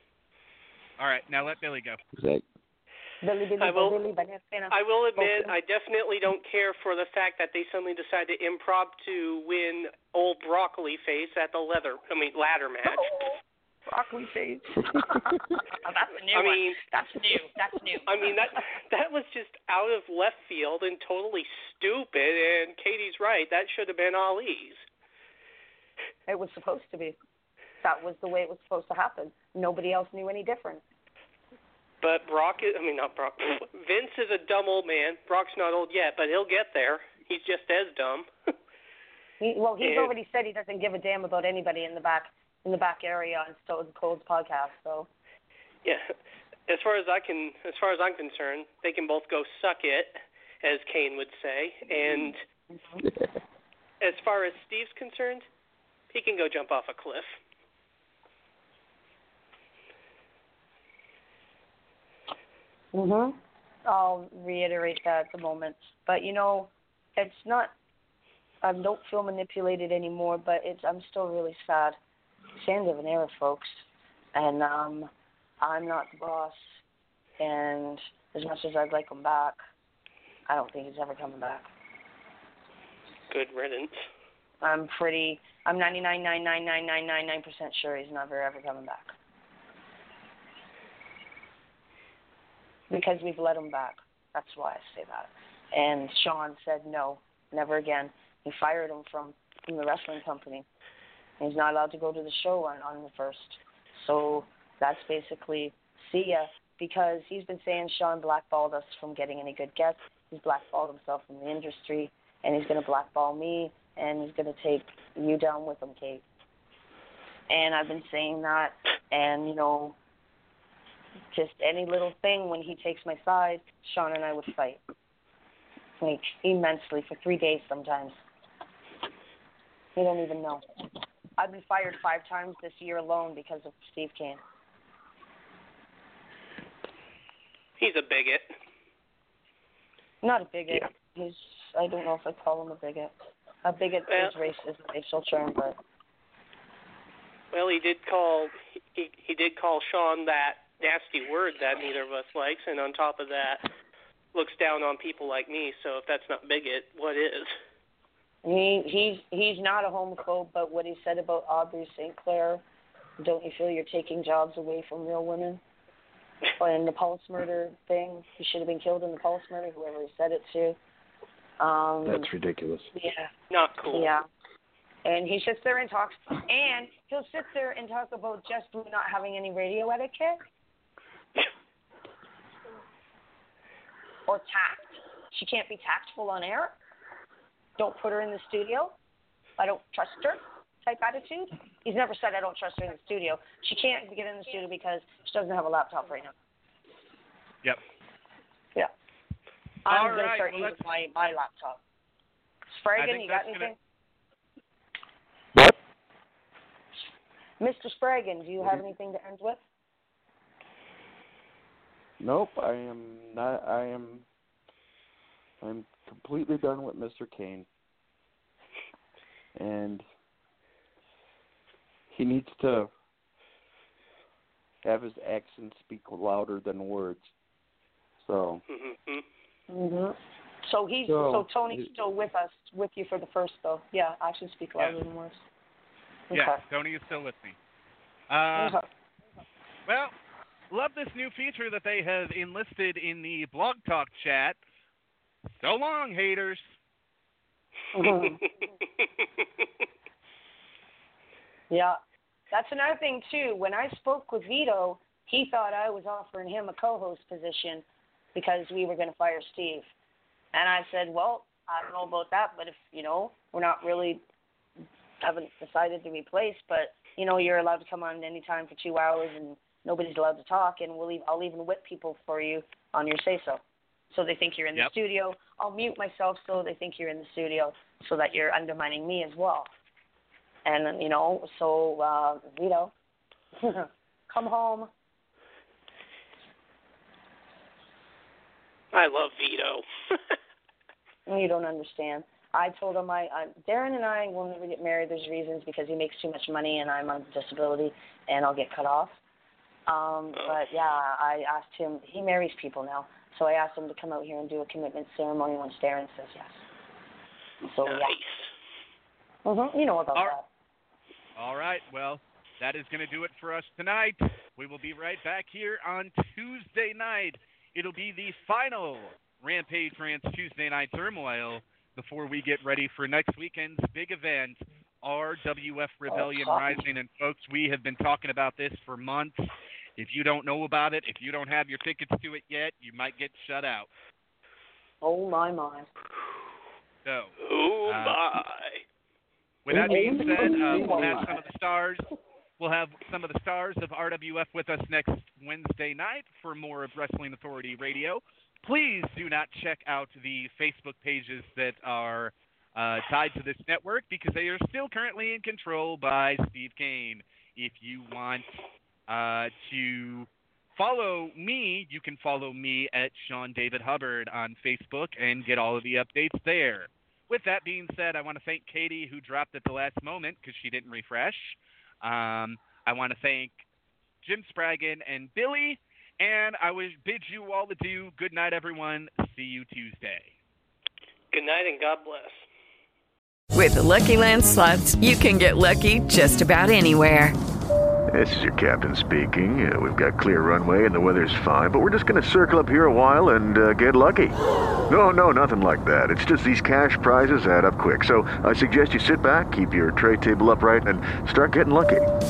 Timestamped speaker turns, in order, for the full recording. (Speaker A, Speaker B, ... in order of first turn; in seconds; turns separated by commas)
Speaker A: 1.0-2.0, Speaker B: 2.2-2.4, Speaker C: 3.2-5.6, Speaker D: 3.6-4.0, Speaker D: 4.7-13.4, Speaker C: 12.8-18.4, Speaker D: 16.3-16.8, Speaker D: 18.1-24.9, Speaker C: 26.3-27.2, Speaker C: 27.8-30.8, Speaker D: 32.0-38.3, Speaker C: 39.4-45.1, Speaker D: 39.8-40.1, Speaker D: 46.7-52.4, Speaker C: 52.7-53.0, Speaker B: 53.0-53.4, Speaker D: 54.0-55.5, Speaker D: 56.1-57.4, Speaker C: 62.9-67.7, Speaker C: 68.6-72.0, Speaker C: 72.6-75.1, Speaker C: 75.6-76.8, Speaker C: 77.4-79.6, Speaker C: 80.5-81.7, Speaker D: 83.3-84.0, Speaker C: 84.6-89.1, Speaker C: 92.9-100.7, Speaker C: 101.4-116.2, Speaker C: 117.5-120.0, Speaker C: 121.3-124.8, Speaker C: 126.0-128.1, Speaker C: 130.0-130.6, Speaker C: 131.4-134.4, Speaker D: 137.8-138.5, Speaker C: 140.2-143.1, Speaker C: 143.6-145.8, Speaker D: 144.1-144.4, Speaker D: 147.5-153.7, Speaker D: 154.3-157.5, Speaker C: 158.4-162.6, Speaker C: 163.2-165.6, Speaker C: 166.6-170.8, Speaker C: 171.6-172.3, Speaker B: 172.1-172.8, Speaker C: 172.9-173.3, Speaker D: 173.5-174.1, Speaker C: 173.9-174.2, Speaker C: 175.1-180.4, Speaker C: 184.3-186.8, Speaker C: 187.8-189.0, Speaker C: 189.6-196.3, Speaker C: 199.8-201.8, Speaker A: 199.9-200.8, Speaker C: 202.7-203.8, Speaker A: 203.0-203.7, Speaker C: 207.6-209.6, Speaker B: 212.2-214.2, Speaker B: 215.6-217.7, Speaker B: 219.6-220.0, Speaker B: 222.1-222.9, Speaker B: 224.8-227.3, Speaker B: 228.2-228.6, Speaker D: 228.7-229.2, Speaker C: 229.7-235.4, Speaker B: 231.1-231.9, Speaker C: 236.3-236.6, Speaker A: 236.3-237.6, Speaker A: 238.3-238.8, Speaker C: 238.6-238.9, Speaker A: 239.9-240.1, Speaker A: 240.7-244.6, Speaker A: 245.6-246.7, Speaker C: 247.9-248.4, Speaker D: 248.0-248.4, Speaker C: 251.7-252.0, Speaker C: 252.5-257.8, Speaker C: 258.4-259.9, Speaker C: 260.5-264.2, Speaker C: 265.2-279.7, Speaker C: 280.6-282.9, Speaker C: 283.6-284.9, Speaker D: 288.9-290.4, Speaker C: 291.3-299.2, Speaker C: 299.9-306.6, Speaker C: 307.6-308.2, Speaker D: 307.8-308.5, Speaker C: 309.4-310.5, Speaker A: 311.4-333.9, Speaker C: 326.1-326.8, Speaker C: 335.0-335.9, Speaker A: 337.1-337.3, Speaker D: 337.4-338.8, Speaker A: 337.9-338.2, Speaker A: 339.7-342.1, Speaker C: 339.7-341.4, Speaker B: 339.8-341.1, Speaker A: 342.6-358.6, Speaker A: 359.1-373.6, Speaker A: 374.2-380.3, Speaker D: 381.3-382.4, Speaker E: 383.5-387.4, Speaker F: 388.1-394.4, Speaker F: 394.9-402.1